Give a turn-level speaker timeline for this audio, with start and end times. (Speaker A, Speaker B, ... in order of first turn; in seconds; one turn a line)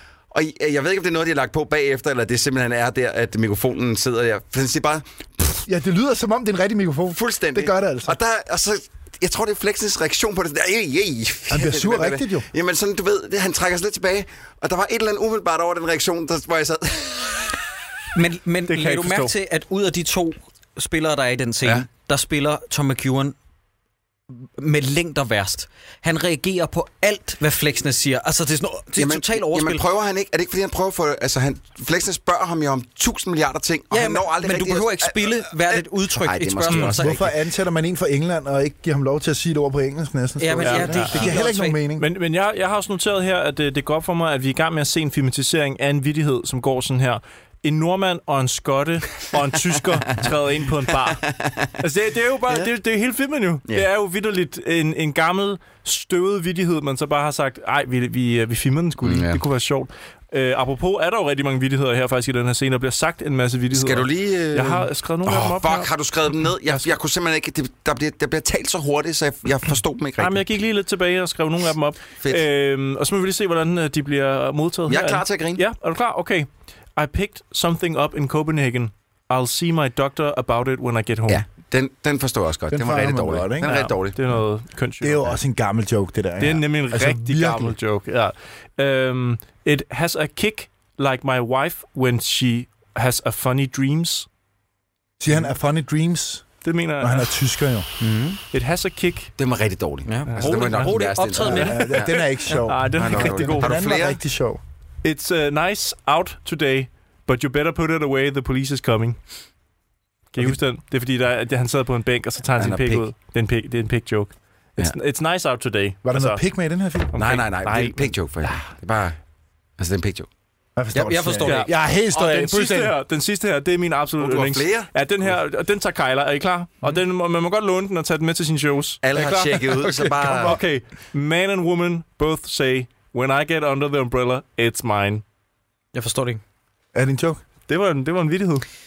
Speaker A: 0.3-5.6
Speaker B: 5.7-8.2
Speaker A: 7.1-17.5
Speaker B: 11.5-12.5
Speaker C: 18.1-23.4
Speaker D: 18.7-19.3
Speaker C: 24.4-29.8
Speaker A: 28.9-37.3
Speaker C: 33.9-37.2
Speaker B: 36.9-42.1
Speaker C: 40.4-41.8
Speaker D: 40.6-41.4
Speaker D: 42.0-51.2
Speaker A: 51.1-51.7
Speaker D: 51.8-65.9
Speaker A: 59.0-59.4
Speaker A: 63.7-70.5
Speaker D: 66.7-66.9
Speaker D: 70.2-81.4
Speaker A: 74.9-75.7
Speaker A: 81.3-84.2
Speaker B: 82.7-83.8
Speaker D: 83.6-85.4
Speaker B: 85.0-87.8
Speaker D: 86.4-94.3
Speaker B: 95.2-97.9
Speaker D: 96.6-97.3
Speaker C: 98.0-98.4
Speaker D: 98.5-99.3
Speaker A: 99.4-102.3
Speaker C: 100.1-101.9
Speaker D: 100.3-103.8
Speaker B: 101.4-104.6
Speaker A: 102.9-104.2
Speaker D: 105.0-109.2
Speaker D: 110.3-116.4
Speaker A: 112.6-113.0
Speaker B: 116.0-117.1
Speaker D: 117.1-118.5
Speaker A: 117.2-119.2
Speaker A: 119.8-120.3
Speaker B: 120.8-123.0
Speaker C: 121.0-121.7
Speaker D: 121.5-135.2
Speaker A: 124.2-124.9
Speaker A: 129.0-130.6
Speaker B: 130.1-130.6
Speaker C: 135.9-136.4
Speaker B: 136.9-137.4
Speaker D: 137.7-138.7